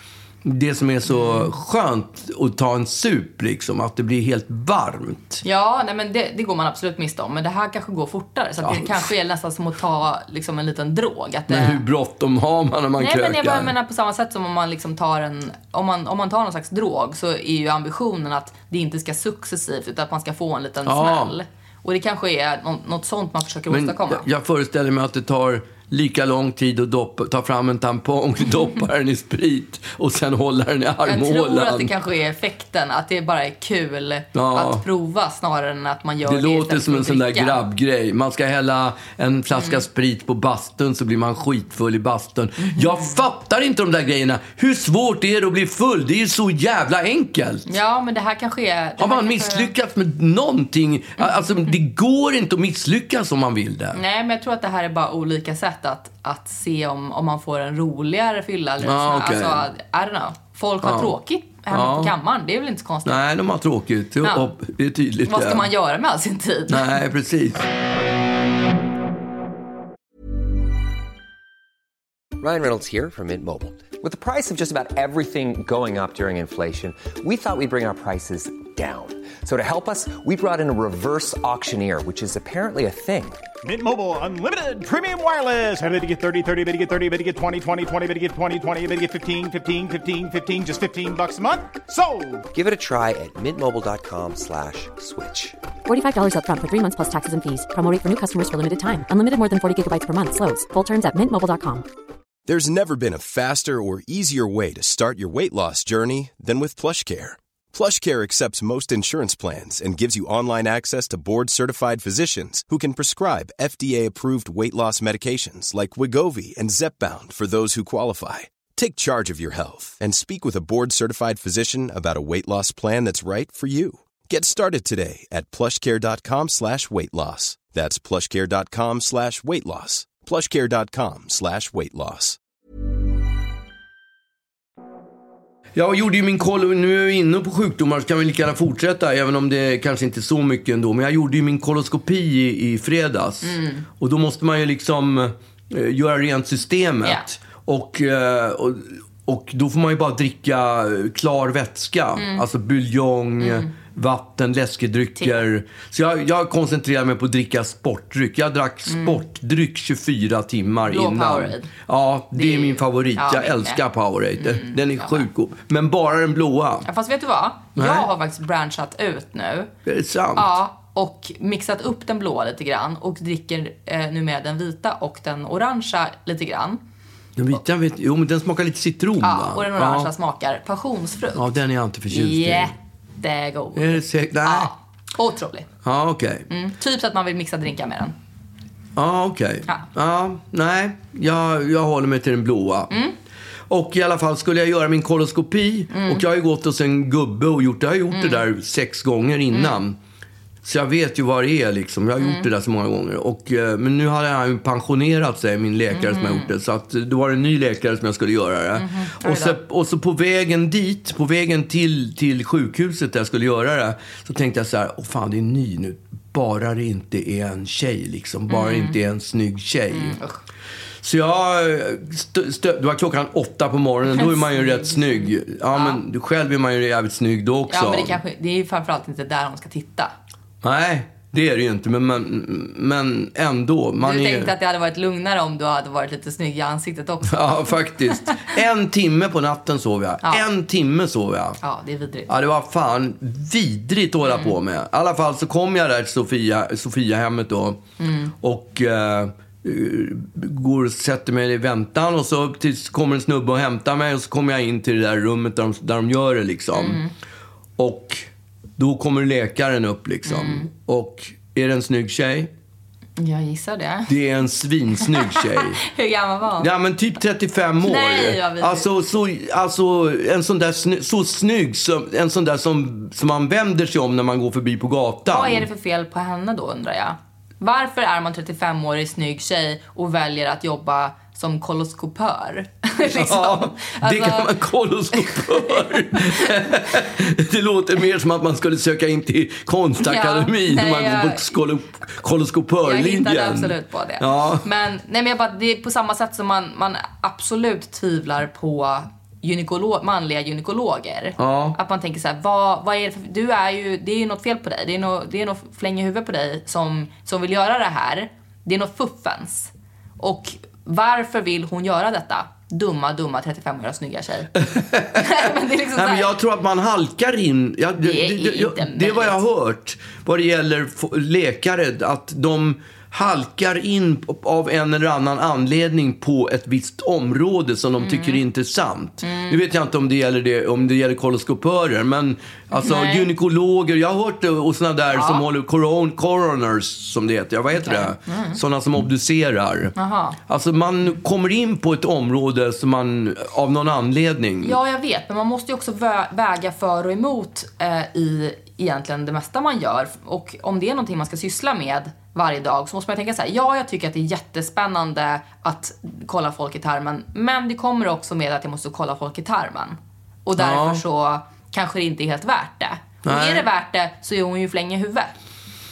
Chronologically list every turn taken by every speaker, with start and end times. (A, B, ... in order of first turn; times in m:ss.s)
0:00.4-0:05.4 A
0:01.1-0:01.5 B
0:05.4-0:11.8 B
0:08.6-0:09.1 A
0:11.5-0:13.7 A
0:13.0-0:24.2 B
0:20.8-0:21.4 A
0:23.7-0:31.9 A
0:31.0-0:37.6 B
0:34.3-0:34.8 A
0:36.2-0:47.7 A
0:39.5-0:39.8 B
0:42.6-0:43.2 B
0:47.7-0:49.7 B
0:49.0-0:54.0 A
0:53.9-1:03.2 B
0:58.8-0:59.7 A
1:00.8-1:01.2 A
1:01.7-1:02.2 A
1:03.0-1:05.7 A
1:04.2-1:04.5 B
1:05.3-1:07.0 B
1:06.7-1:07.7 A
1:12.4-1:23.4 C
1:23.6-1:32.5 D
1:32.5-1:35.6 C
1:35.9-1:41.9 E
1:42.5-2:12.4 F
2:15.8-2:46.9 A
2:23.4-2:23.8 B
2:32.2-2:32.4 B
2:33.4-2:33.7 B
2:35.2-2:35.4 B
2:38.9-2:39.2 B
2:40.9-2:41.7 B
2:42.3-2:43.8 B
2:44.4-2:45.3 B
2:46.8-2:49.7 B
2:47.8-2:48.1 A
2:49.9-2:50.6 A
2:50.4-2:56.8 B
2:57.4-3:00.1 A
2:59.2-3:01.5 B
3:01.4-3:02.7 A
3:02.1-3:05.7 B
3:03.8-3:04.7 A
3:05.8-3:06.5 A
3:06.5-3:08.2 B
3:09.0-3:12.9 A
3:12.9-3:13.2 B
3:13.7-3:20.0 A
3:15.9-3:16.2 B
3:18.1-3:18.4 B
3:19.5-3:19.8 B
3:20.6-3:40.2 A
3:22.2-3:22.5 B
3:25.9-3:26.5 B
3:28.8-3:29.6 B
3:38.5-3:39.0 B
3:39.9-3:40.4 B
3:41.0-3:48.2 A
3:44.1-3:46.0 B
3:47.7-3:50.1 B
3:50.6-3:54.5 A
3:54.0-3:58.5 B
3:57.3-4:01.6 A
4:01.6-4:02.3 B
4:02.3-4:07.8 A
4:04.2-4:04.6 B
4:08.0-4:08.3 B
4:08.4-4:17.0 A
4:16.7-4:17.1 B
4:17.8-4:22.5 A
4:20.2-4:20.7 B
4:23.2-4:24.1 B
4:24.1-4:25.8 A
4:25.0-4:26.7 B
4:26.6-4:35.7 A
4:27.8-4:28.9 B
4:35.3-4:44.6 B
4:43.0-4:54.7 A
4:45.1-4:46.8 B
4:50.0-4:51.6 B
4:52.8-5:14.6 B
5:01.4-5:01.8 A
5:14.6-5:40.0 A
5:15.1-5:16.3 B
5:18.0-5:19.4 B
5:28.0-5:28.4 B
5:29.2-5:29.6 B
5:32.7-5:33.3 B
5:35.1-5:35.4 B
5:37.7-5:38.6 B
5:40.0-5:40.4 B
5:40.5-5:44.8 A
5:44.6-6:05.4 B
6:00.6-6:01.0 A
6:03.2-6:03.7 A